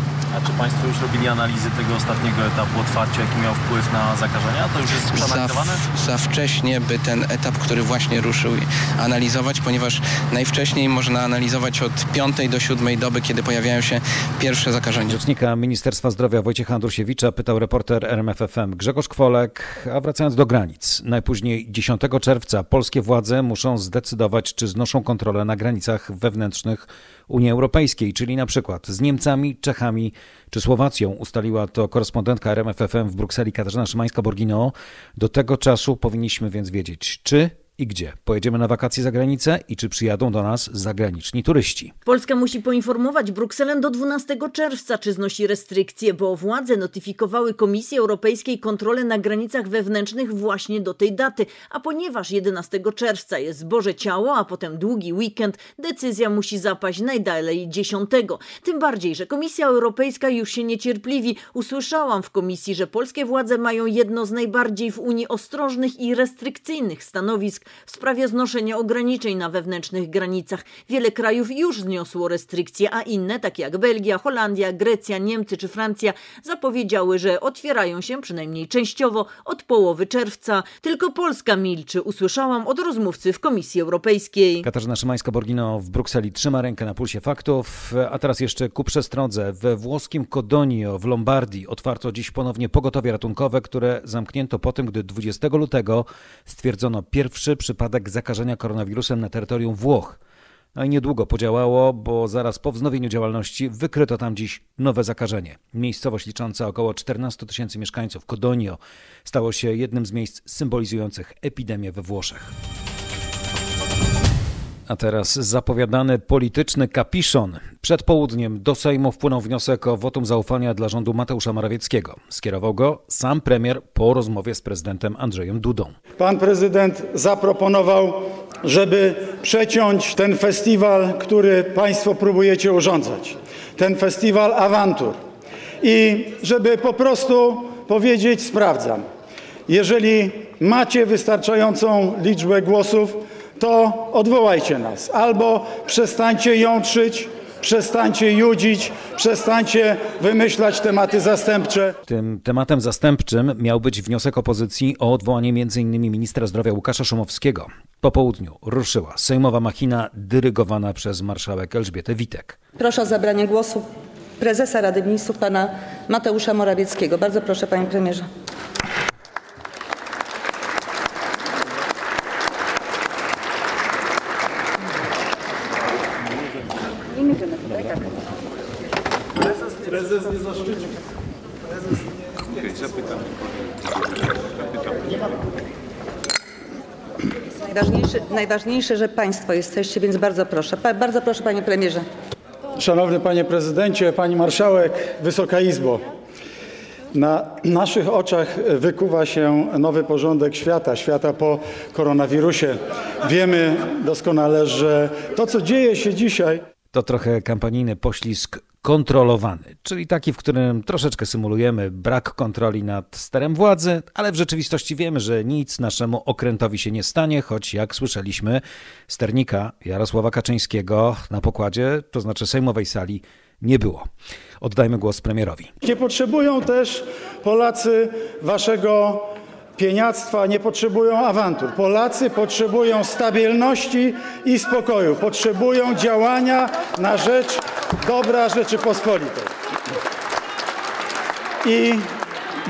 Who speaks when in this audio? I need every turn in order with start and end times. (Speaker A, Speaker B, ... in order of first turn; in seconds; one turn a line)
Speaker A: 0.3-5.8
Speaker B: 5.1-15.2
Speaker C: 15.1-41.9
Speaker D: 42.0-84.7
Speaker C: 84.6-100.2
Speaker C: 100.7-112.5
Speaker C: 114.9-126.0
Speaker E: 126.2-135.2
Speaker E: 135.8-139.1
Speaker E: 139.7-152.0
Speaker C: 152.0-162.6
Speaker F: 162.8-168.3
Speaker F: 187.7-192.1
Speaker E: 192.8-196.0
Speaker E: 197.1-206.6
Speaker C: 206.9-224.1
Speaker C: 224.6-225.7
Speaker E: 225.8-239.5
Speaker E: 241.6-242.1